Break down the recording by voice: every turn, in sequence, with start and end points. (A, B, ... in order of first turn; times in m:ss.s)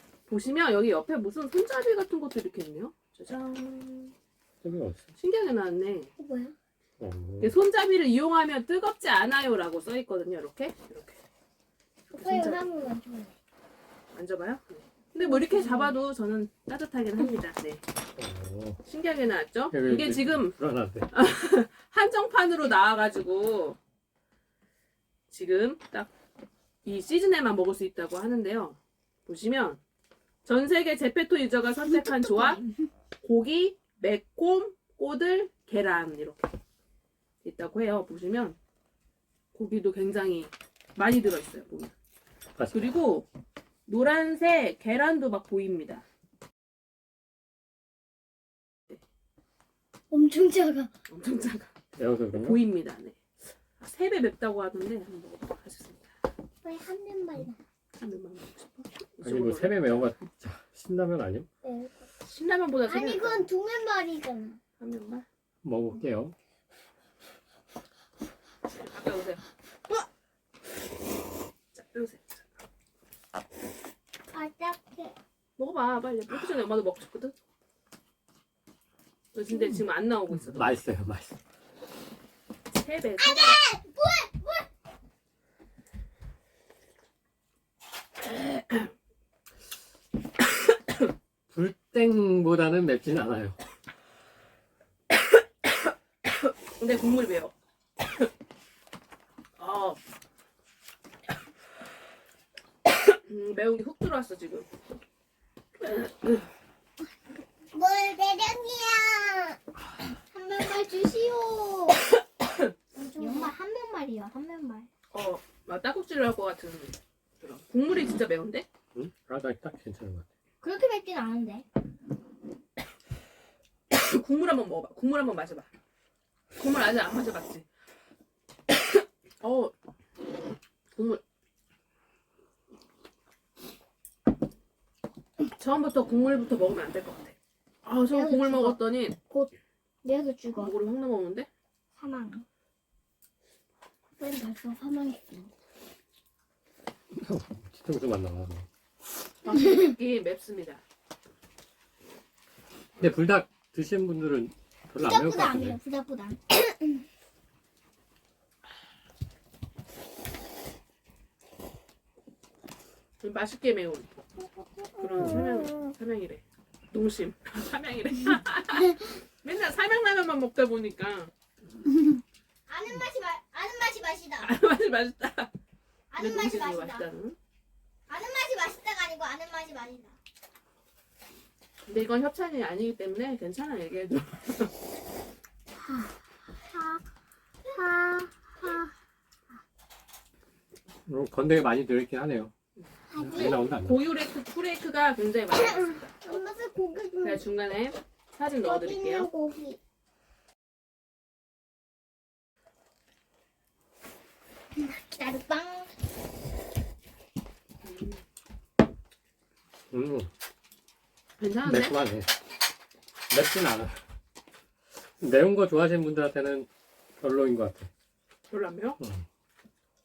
0:00.3-0:04.1 A
0:04.6-0:05.0 B
0:05.2-0:06.1 A
0:06.2-0:06.5 C
0:07.0-0:07.5 B
0:07.4-0:11.2 A
0:12.1-0:13.3 C
0:12.1-0:12.8 A
0:14.1-0:17.8 A
0:15.2-0:16.0 C
0:18.2-0:18.8 B
0:18.8-0:20.5 A
0:19.7-0:21.1 B
0:21.1-0:23.8 A
0:25.3-0:26.1 A
0:26.8-0:29.8 A
0:30.4-0:32.6 A
0:32.1-0:32.8 C
0:33.2-0:36.4 A
0:37.4-0:38.6 A
0:39.5-0:41.9 A
0:42.6-0:42.9 B
0:42.7-0:43.3 A
0:43.9-0:46.0 A
0:50.1-0:50.9 C
0:51.1-0:51.7 A
0:52.0-0:52.6 B
0:52.3-0:53.2 A
0:53.8-0:56.1 A
0:56.6-0:57.6 C
0:58.0-0:59.8 A
0:59.2-1:01.5 B
1:01.6-1:02.0 C
1:02.2-1:03.5 A
1:02.8-1:04.6 C
1:04.8-1:05.2 A
1:05.6-1:06.3 B
1:08.7-1:09.4 A
1:11.7-1:12.4 A
1:14.3-1:15.2 C
1:15.6-1:17.3 A
1:19.3-1:20.7 A
1:20.3-1:21.4 B
1:22.8-1:23.6 A
1:23.2-1:24.6 C
1:28.2-1:28.9 A
1:31.5-1:33.6 B
1:36.3-1:38.3 A
1:39.6-1:40.0 A
1:43.1-1:44.7 A
1:45.8-1:46.5 A
1:47.7-1:49.6 C
1:50.3-1:52.0 C
1:52.9-1:54.9 C
1:53.2-1:53.5 A
1:55.1-1:58.6 A
1:58.9-2:00.2 B
2:00.6-2:01.6 C
2:03.9-2:05.7 A
2:06.5-2:07.6 A
2:09.4-2:09.7 A
2:10.9-2:11.2 A
2:15.4-2:19.2 A
2:18.1-2:18.8 C
2:20.0-2:20.7 C
2:20.5-2:21.5 A
2:22.0-2:22.4 C
2:24.2-2:25.5 C
2:27.1-2:28.7 B
2:29.4-2:30.8 A
2:33.0-2:35.8 B
2:35.0-2:37.0 C
2:43.2-2:44.1 A
2:45.0-2:45.9 C
2:45.0-2:51.3 A
2:52.7-2:54.5 C
2:54.4-2:55.5 A
2:56.1-2:57.0 C
2:56.2-2:57.4 A
2:58.1-3:00.2 C
3:01.8-3:04.7 A
3:06.7-3:07.0 C
3:07.6-3:08.9 C
3:11.1-3:12.5 B
3:13.1-3:13.6 C
3:13.2-3:14.0 B
3:13.2-3:16.5 A
3:15.5-3:17.4 C
3:17.2-3:19.3 A
3:18.6-3:19.8 C
3:24.8-3:25.9 C
3:27.8-3:28.2 A
3:29.9-3:30.3 B
3:31.4-3:31.9 A
3:31.6-3:32.3 B
3:33.3-3:34.0 B
3:35.2-3:36.7 B
3:37.2-3:37.9 B
3:38.5-3:39.0 A
3:39.0-3:39.2 B